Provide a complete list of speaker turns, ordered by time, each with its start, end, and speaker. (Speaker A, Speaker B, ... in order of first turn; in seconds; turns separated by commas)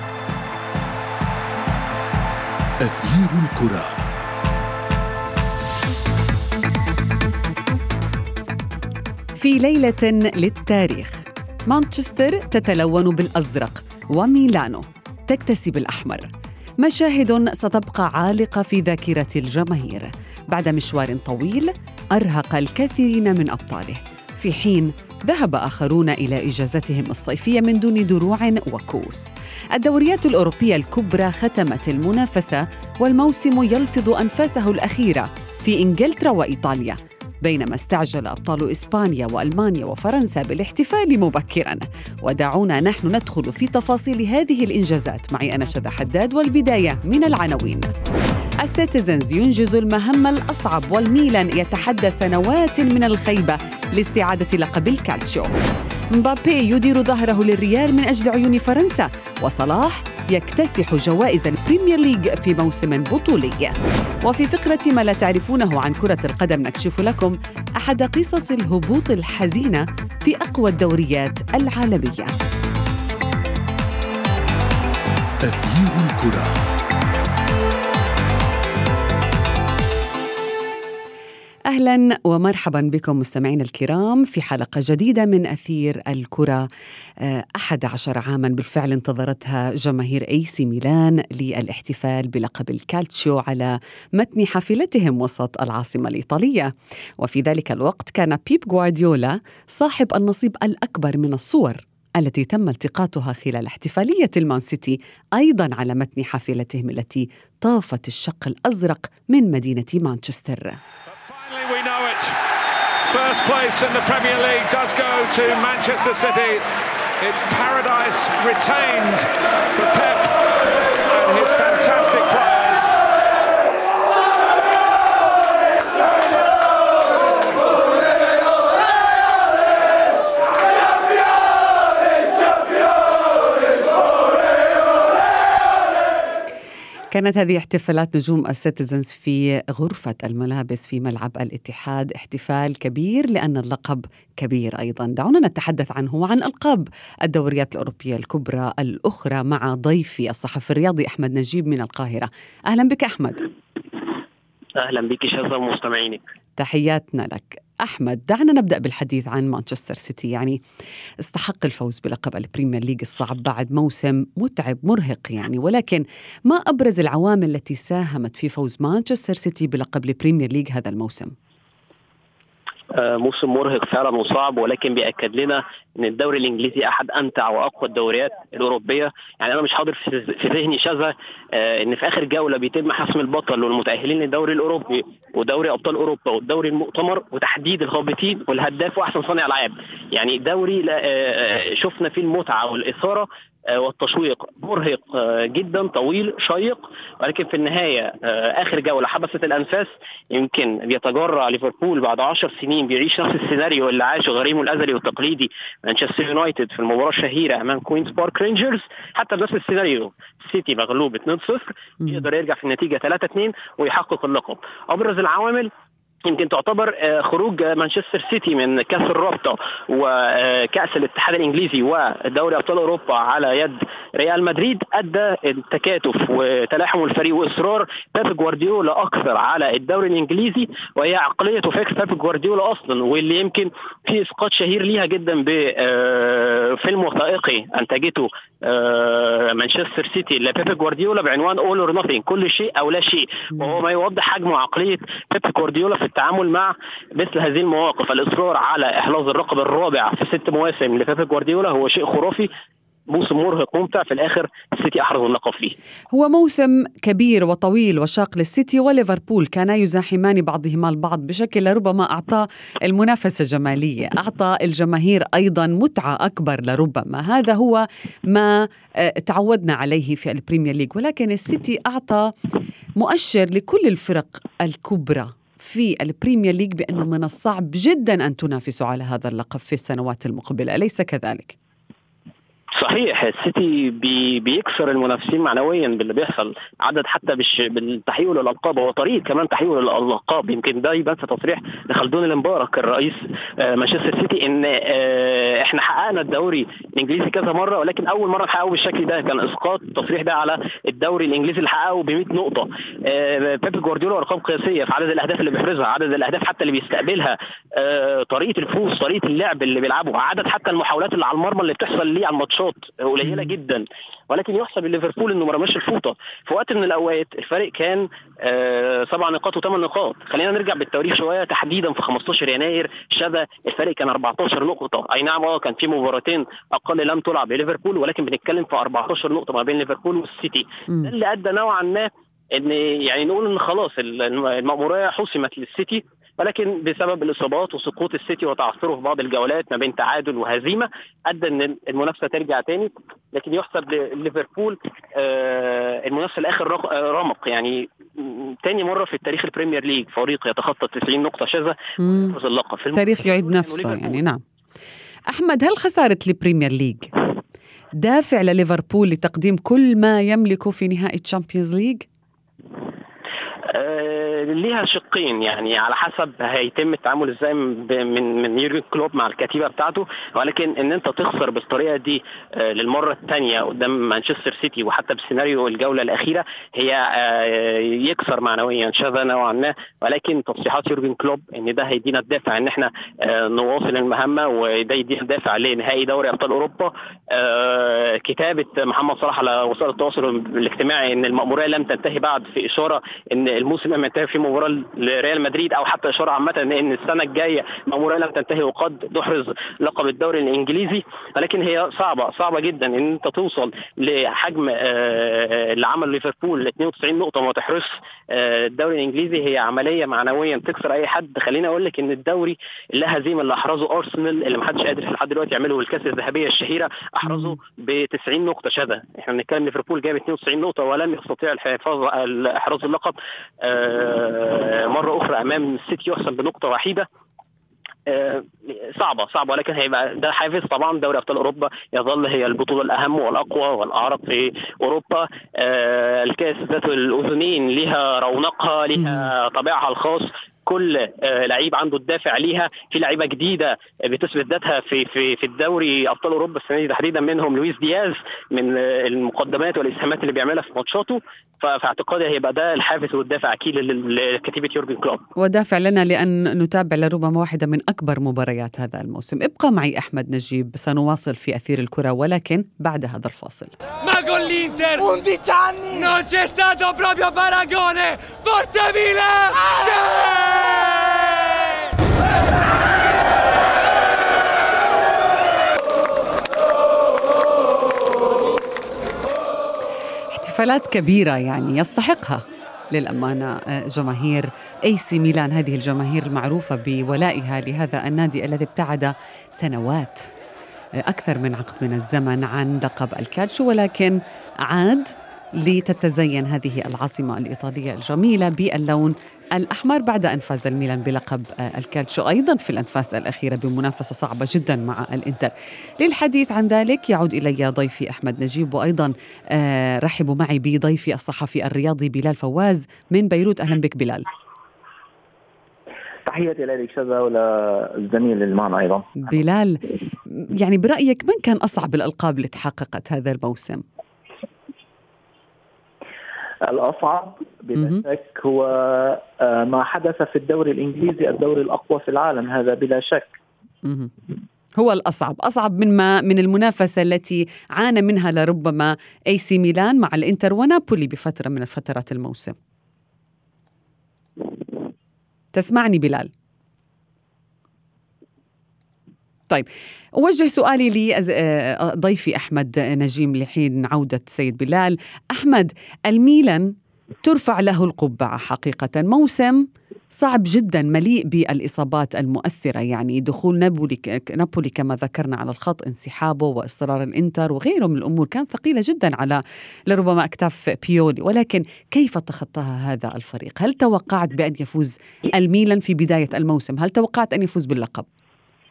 Speaker A: 2.8-4.1, Speaker B: 9.4-16.3, Speaker B: 16.8-47.9, Speaker B: 48.6-55.5, Speaker B: 56.1-72.3, Speaker A: 75.4-76.6, Speaker B: 81.7-86.6, Speaker B: 87.2-110.8, Speaker C: 111.1-112.4, Speaker C: 113.1-116.6, Speaker C: 117.2-120.5, Speaker C: 121.0-123.0, Speaker B: 137.1-153.5, Speaker D: 154.8-156.2, Speaker B: 156.6-160.6, Speaker B: 161.2-171.3, Speaker D: 172.9-215.7, Speaker D: 216.2-252.5, Speaker D: 253.1-255.8, Speaker B: 256.1-272.3, Speaker B: 273.0-281.6, Speaker D: 282.8-354.2, Speaker B: 313.2-313.5, Speaker B: 352.0-352.3, Speaker B: 352.9-354.4, Speaker B: 355.3-357.1, Speaker B: 358.0-362.1, Speaker D: 363.7-427.1, Speaker B: 417.2-417.6, Speaker D: 428.1-455.2, Speaker B: 439.0-439.3, Speaker B: 455.4-463.7, Speaker E: 464.0-471.7, Speaker B: 480.3-490.3, Speaker B: 491.0-514.3, Speaker F: 516.3-519.2, Speaker B: 519.3-519.9, Speaker B: 520.5-523.8, Speaker F: 526.6-533.4, Speaker B: 533.8-534.1, Speaker B: 534.8-542.6, Speaker B: 545.5-546.3, Speaker B: 549.5-556.7, Speaker B: 557.2-578.1